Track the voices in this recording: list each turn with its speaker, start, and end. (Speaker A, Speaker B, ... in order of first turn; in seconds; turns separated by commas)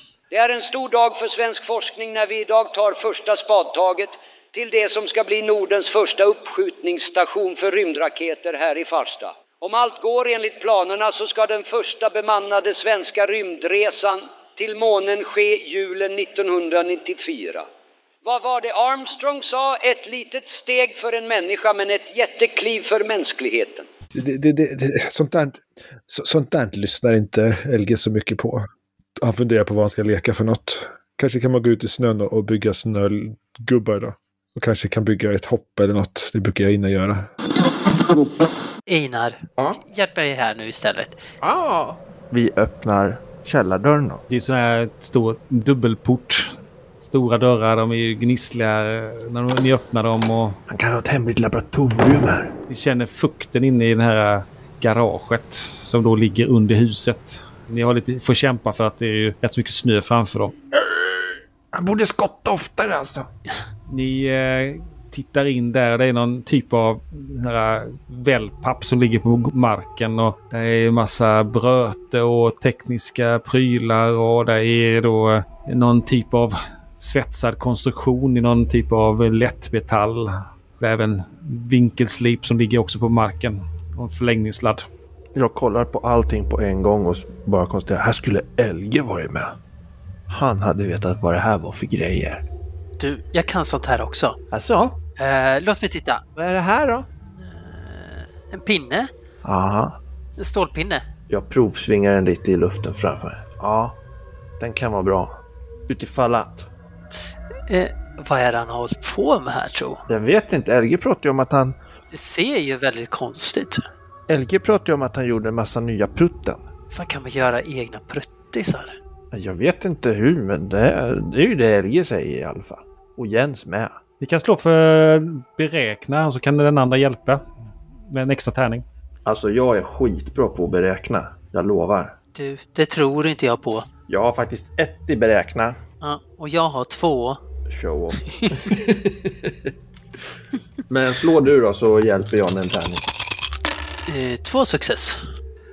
Speaker A: 0.3-17.7, Speaker A: 18.2-23.9, Speaker B: 24.1-28.7, Speaker B: 29.2-37.3, Speaker C: 38.9-41.2, Speaker D: 41.4-44.2, Speaker E: 44.3-50.6, Speaker D: 50.7-52.5, Speaker E: 52.7-60.5, Speaker D: 60.7-63.3, Speaker E: 63.9-84.8, Speaker D: 85.3-89.5, Speaker D: 90.3-92.4, Speaker C: 93.0-94.4, Speaker D: 94.5-95.0, Speaker C: 95.2-96.2, Speaker D: 96.3-97.0, Speaker C: 97.4-99.1, Speaker D: 99.4-100.0, Speaker C: 100.4-101.0, Speaker D: 101.3-104.0, Speaker D: 104.6-105.3, Speaker D: 105.9-106.7, Speaker C: 107.7-110.0, Speaker D: 110.1-111.8, Speaker C: 112.1-113.8, Speaker D: 114.3-116.6, Speaker C: 116.9-119.0, Speaker D: 119.3-124.0, Speaker E: 124.2-127.4, Speaker E: 128.1-128.8, Speaker D: 129.2-132.1, Speaker C: 132.3-133.9, Speaker D: 134.1-135.8, Speaker C: 136.0-137.4, Speaker D: 137.7-139.7, Speaker C: 138.2-138.6, Speaker D: 140.9-143.1, Speaker C: 144.1-145.2